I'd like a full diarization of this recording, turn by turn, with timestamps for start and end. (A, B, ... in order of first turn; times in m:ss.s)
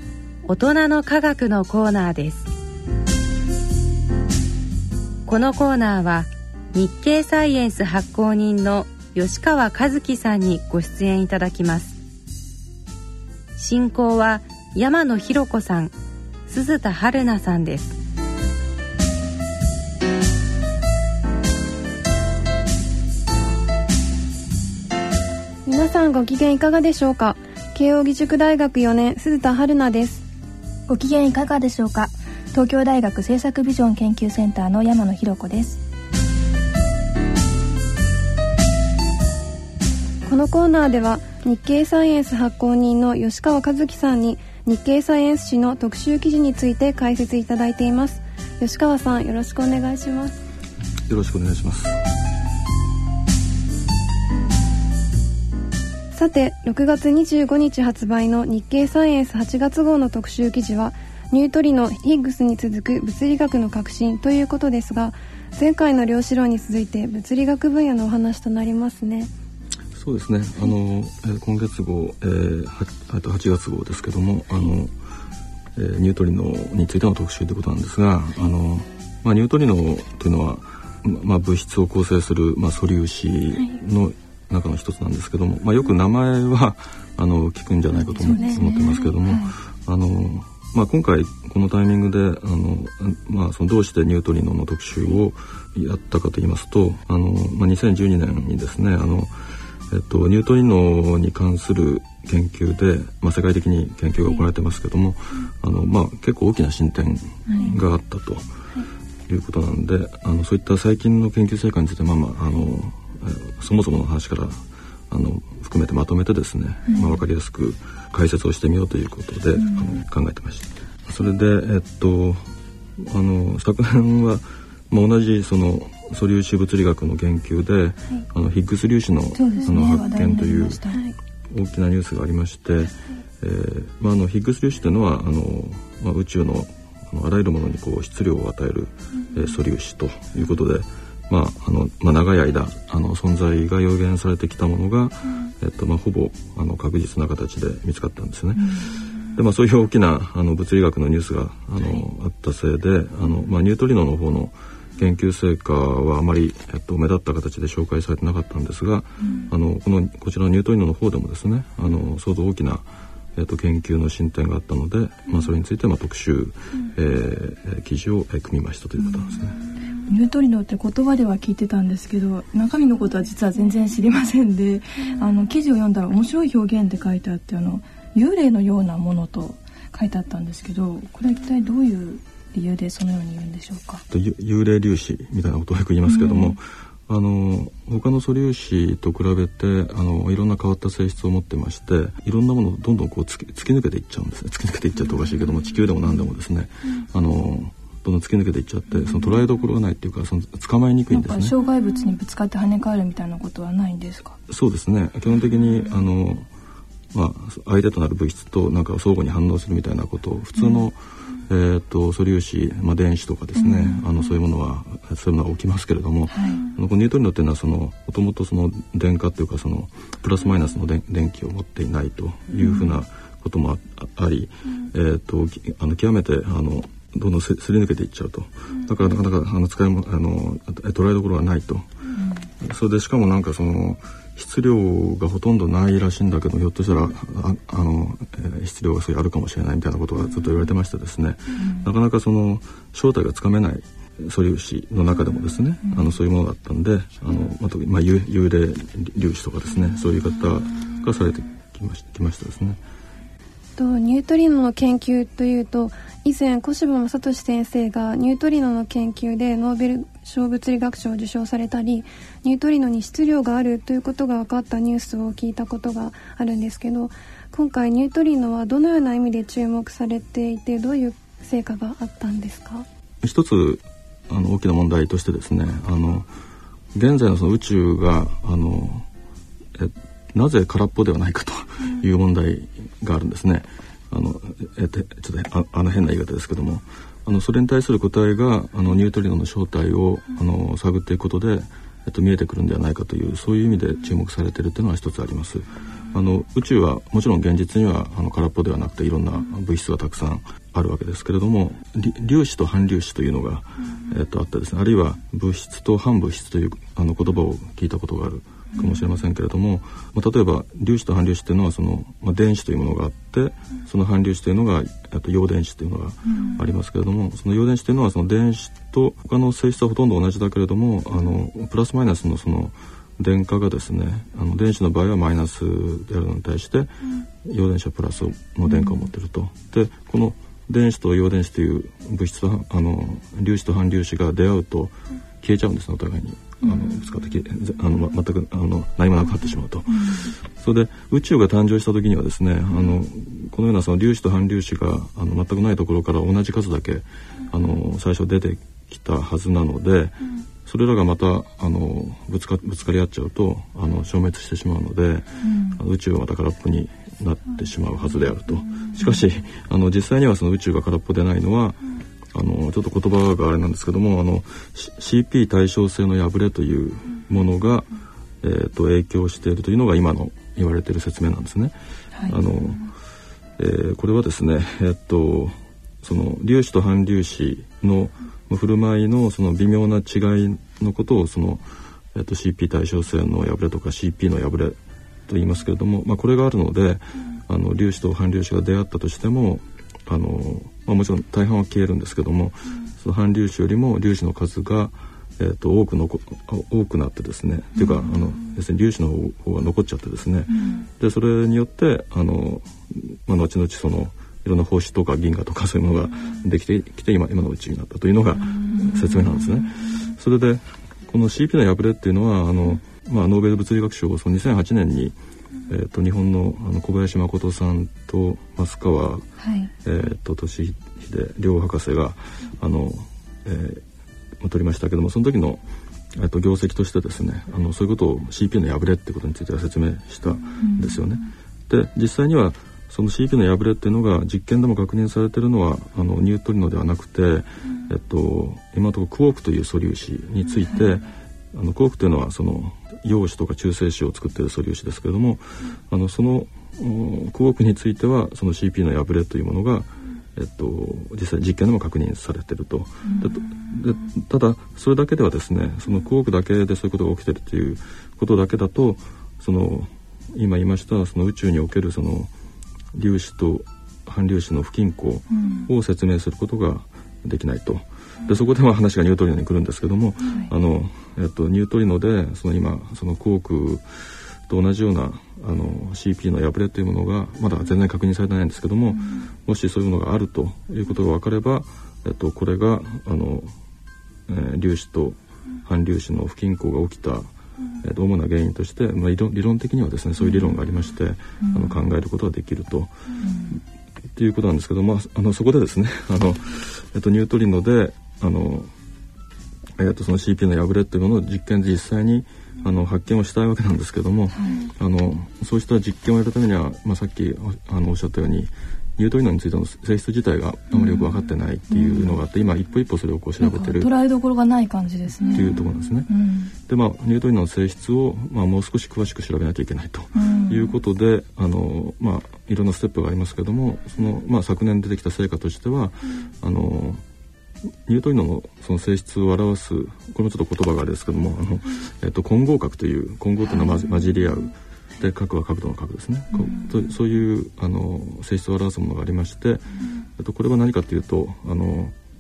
0:00.4-0:02.5 A
0:05.3-0:12.0 A
0:13.6-0:15.9 A
0:16.5-0:18.0 A
0:25.7-0:30.2 B
0:30.9-0:35.8 C
0:40.3-0:50.4 B
0:51.1-0:52.0 D
0:56.2-1:09.3 B
1:09.9-1:14.9 D
1:15.8-1:48.5 D
1:28.0-1:29.5 C
1:47.5-1:47.8 C
1:49.3-2:02.4 D
1:56.9-1:57.2 C
1:59.6-1:59.9 C
2:03.0-2:10.8 D
2:09.3-2:11.0 C
2:11.5-2:49.6 D
2:39.2-2:39.5 C
2:50.1-3:04.0 C
3:04.1-3:21.6 D
3:06.1-3:06.6 C
3:21.1-3:24.4 C
3:24.5-3:26.5 D
3:27.1-3:31.0 D
3:30.6-3:30.8 C
3:31.5-3:51.9 D
3:33.6-3:34.1 C
3:36.3-3:36.7 C
3:42.6-3:43.0 C
3:52.6-4:12.8 D
4:01.6-4:01.9 C
4:05.9-4:06.1 C
4:13.8-4:32.8 B
4:33.2-4:36.3 D
4:36.9-4:39.1 D
4:39.8-6:07.9 D
5:16.3-5:16.7 C
5:28.7-5:29.0 C
5:39.9-5:40.2 C
5:55.4-5:55.8 C
6:08.4-6:11.8 D
6:12.2-6:12.4 C
6:12.3-6:12.8 D
6:13.6-6:55.2 D
6:40.5-6:40.9 C
6:48.7-6:49.3 C
6:55.7-6:59.3 D
6:59.4-6:59.7 C
6:59.8-7:03.8 D
7:04.4-7:05.6 D
7:06.2-7:42.3 D
7:10.6-7:11.0 C
7:33.0-7:33.3 C
7:42.9-8:03.5 D
7:45.3-7:45.7 C
8:04.3-8:07.3 D
8:07.8-8:13.0 D
8:11.4-8:11.8 C
8:13.2-8:13.6 C
8:14.1-8:18.7 D
8:19.8-8:33.9 D
8:24.3-8:24.7 C
8:30.7-8:31.1 C
8:31.7-8:32.2 C
8:33.4-8:36.5 C
8:35.3-8:47.0 D
8:40.1-8:40.8 C
8:47.9-9:02.0 D
8:56.3-8:56.7 C